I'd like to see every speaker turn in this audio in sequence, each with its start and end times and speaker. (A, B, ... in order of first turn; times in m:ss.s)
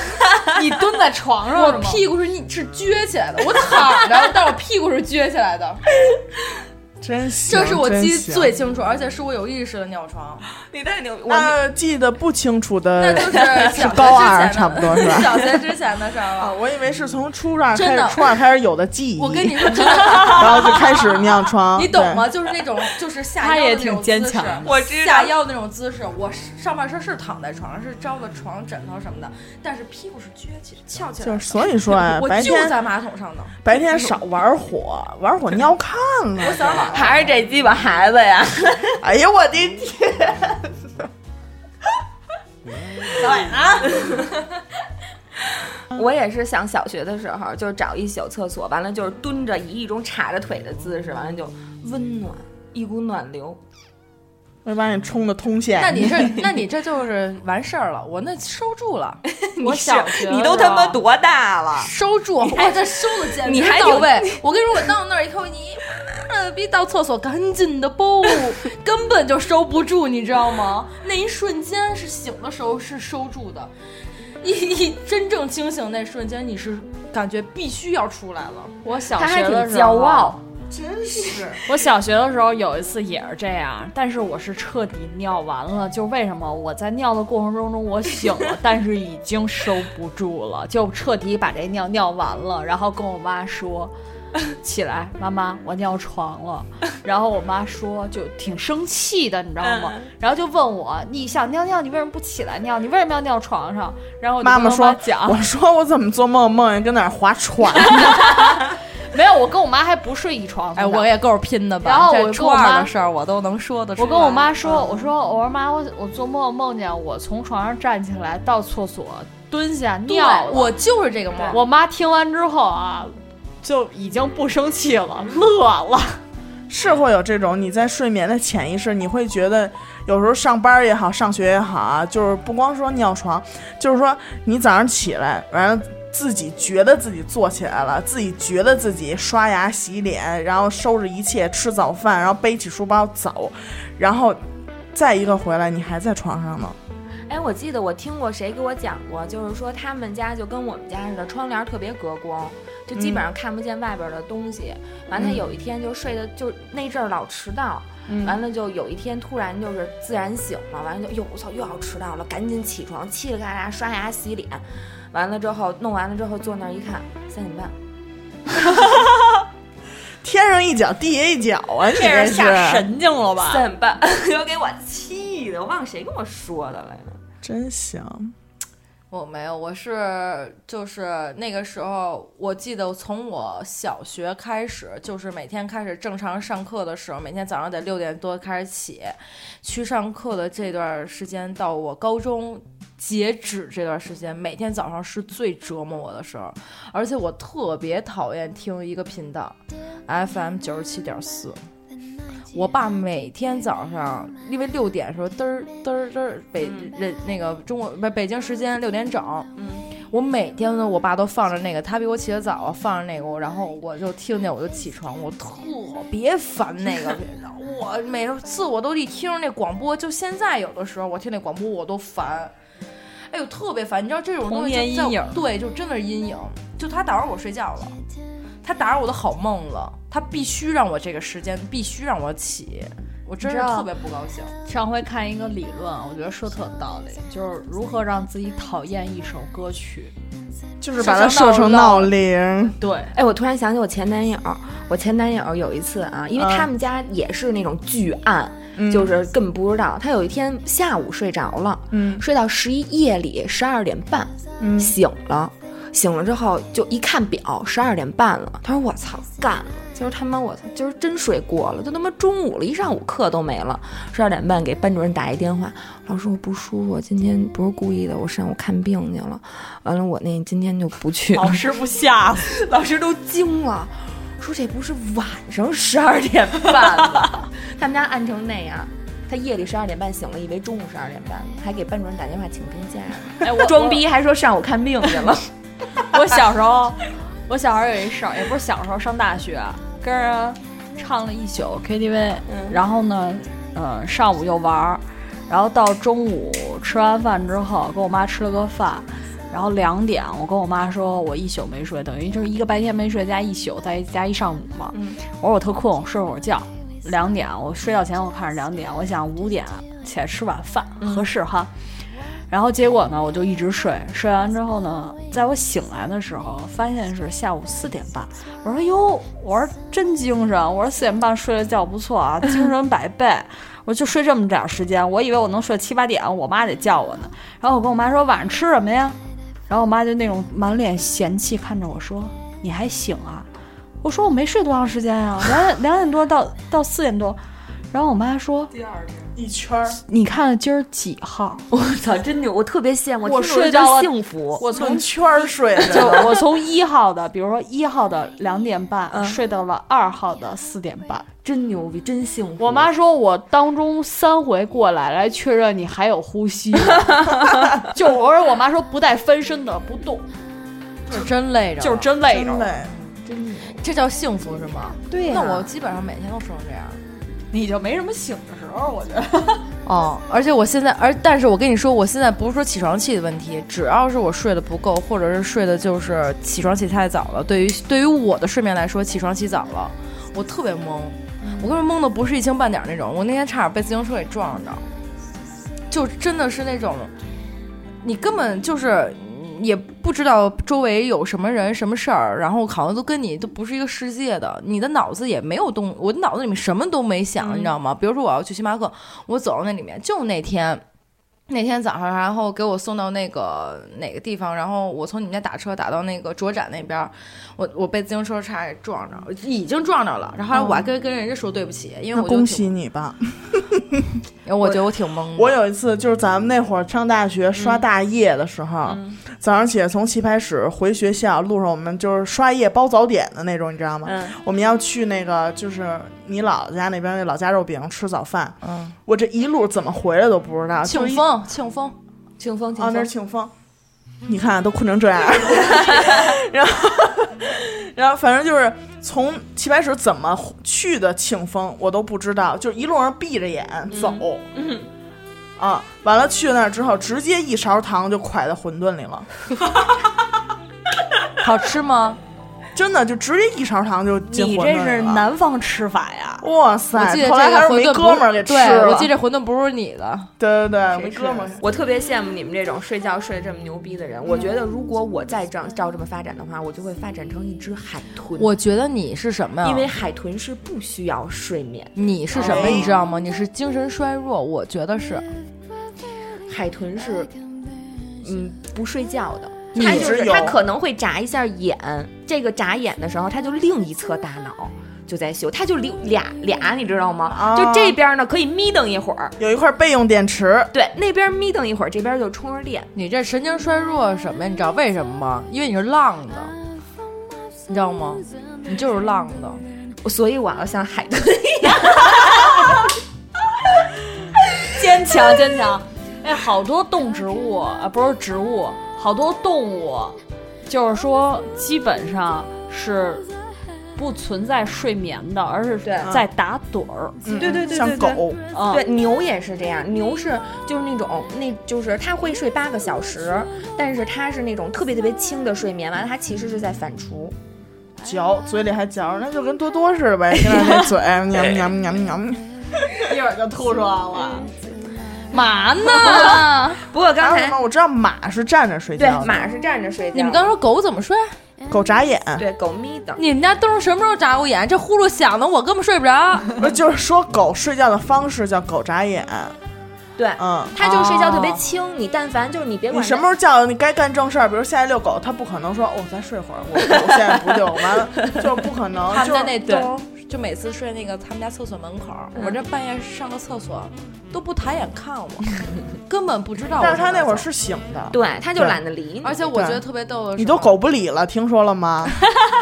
0:00.5-0:02.0 A
0:01.5-0:05.8 B
0:07.0-0:08.5 C
0:07.5-0:10.5 B
0:10.7-0:11.6 D
0:11.3-0:15.5 C
0:13.0-0:16.6 B
0:16.4-0:22.3 C
0:17.7-0:18.4 B
0:19.2-0:33.6 B
0:23.4-0:24.7 A
0:24.6-0:25.4 D
0:31.2-0:32.8 C
0:33.6-0:37.0 C
0:36.4-0:37.3 B
0:36.8-0:39.0 D
0:39.0-0:40.7 C
0:43.1-0:44.1 B
0:43.9-0:44.2 D
0:45.9-0:53.6 D
0:54.6-0:56.4 C
0:55.8-0:59.2 B
0:59.3-1:01.9 D
0:59.6-1:01.0 A
1:01.8-1:13.7 B
1:02.4-1:02.7 D
1:03.4-1:04.4 D
1:14.4-1:18.8 B
1:18.8-1:20.4 A
1:19.1-1:20.4 D
1:20.7-1:21.6 C
1:21.7-1:33.9 A
1:34.5-1:45.4 A
1:39.7-1:40.0 D
1:44.4-1:48.4 C
1:48.0-1:48.6 A
1:49.1-1:51.1 A
1:50.8-1:55.1 B
1:51.8-1:52.9 A
1:54.0-2:00.7 A
2:00.1-2:01.6 B
2:01.5-2:06.2 A
2:06.7-2:24.4 C
2:24.9-2:26.8 C
2:27.3-2:47.8 D
2:33.0-2:33.2 C
2:35.2-2:35.4 C
2:38.1-2:38.4 C
2:50.2-2:52.9 C
2:51.9-2:53.6 A
2:53.4-2:57.2 D
2:57.4-2:58.3 C
2:59.1-3:19.6 B
3:20.1-3:21.6 B
3:22.5-3:29.5 B
3:26.6-3:26.9 D
3:29.6-3:29.9 D
3:30.1-3:42.5 B
3:43.3-3:48.0 B
3:44.4-3:45.4 A
3:48.6-3:54.5 B
3:53.4-3:53.9 A
3:54.7-4:00.1 A
4:00.8-4:02.8 C
4:01.0-4:02.1 B
4:02.8-4:03.1 B
4:03.1-4:31.7 D
4:06.4-4:06.7 C
4:08.8-4:09.1 C
4:11.9-4:12.2 C
4:14.6-4:14.9 C
4:31.3-4:32.5 A
4:32.4-4:45.5 D
4:43.4-4:44.0 A
4:46.0-5:11.7 A
4:52.5-4:52.8 D
5:04.9-5:05.2 D
5:11.0-5:11.3 D
5:12.5-5:29.2 A
5:29.7-5:33.5 A
5:34.0-5:37.4 A
5:37.9-5:38.7 A
5:39.4-5:40.0 C
5:40.1-5:41.6 A
5:41.7-5:44.6 D
5:43.2-5:45.1 A
5:44.7-5:46.3 C
5:45.8-5:51.3 A
5:45.9-5:46.4 D
5:49.1-5:49.4 D
5:51.4-5:52.9 D
5:52.6-6:00.2 A
5:57.1-5:57.4 D
6:01.1-6:02.1 B
6:01.8-6:02.7 A
6:02.3-6:02.9 C
6:03.3-6:03.8 D
6:03.8-6:07.0 B
6:05.1-6:05.7 D
6:07.5-6:09.7 A
6:09.8-6:24.8 B
6:21.4-6:21.7 C
6:25.9-6:27.1 B
6:28.0-6:40.8 B
6:37.4-6:37.7 C
6:41.5-6:52.7 B
6:50.5-6:50.8 C
6:52.1-6:54.1 C
6:54.5-6:55.6 B
6:55.4-7:11.2 C
6:57.6-6:57.8 D
6:58.8-6:59.2 D
7:04.0-7:04.4 D
7:08.6-7:09.0 B
7:10.8-7:12.0 B
7:12.4-7:13.1 D
7:12.8-7:13.5 C
7:14.2-7:24.4 C
7:15.8-7:16.3 D
7:23.9-7:24.9 D
7:25.6-7:29.3 C
7:31.4-7:32.2 B
7:32.8-7:35.3 C
7:34.3-7:36.5 A
7:36.4-7:39.1 C
7:36.9-7:40.3 B
7:40.4-7:41.6 C
7:40.9-7:48.5 D
7:48.4-7:49.9 B
7:49.6-7:52.9 D
7:52.0-7:55.3 B
7:52.3-7:52.9 C
7:56.5-7:57.3 D
7:58.2-8:09.4 D
7:59.7-8:00.2 B
7:59.8-8:00.6 C
8:07.3-8:08.0 C
8:09.4-8:10.7 C
8:10.7-8:12.9 D
8:13.0-8:16.6 B
8:17.7-8:19.6 B
8:20.0-8:22.7 D
8:24.7-8:33.3 A
8:34.0-8:37.2 A
8:35.8-8:36.1 D
8:37.2-8:38.4 C
8:37.4-8:47.4 D
8:38.5-8:38.8 A
8:48.0-8:52.4 C
8:53.1-8:54.4 A
8:54.1-8:54.5 D
8:55.3-8:56.8 B
8:55.8-8:57.6 D
8:57.2-8:59.5 C
8:59.0-9:00.6 D
9:00.1-9:01.4 B
9:01.7-9:02.4 C
9:02.4-9:03.2 D
9:03.2-9:06.6 B
9:06.6-9:09.5 C
9:10.2-9:13.3 D
9:10.4-9:10.8 C
9:10.8-9:11.6 B
9:12.9-9:19.6 C
9:19.1-9:27.5 B
9:22.4-9:22.6 D
9:26.8-9:28.8 C
9:28.1-9:29.5 D
9:29.2-9:30.8 B
9:29.5-9:29.8 C
9:30.4-9:32.2 C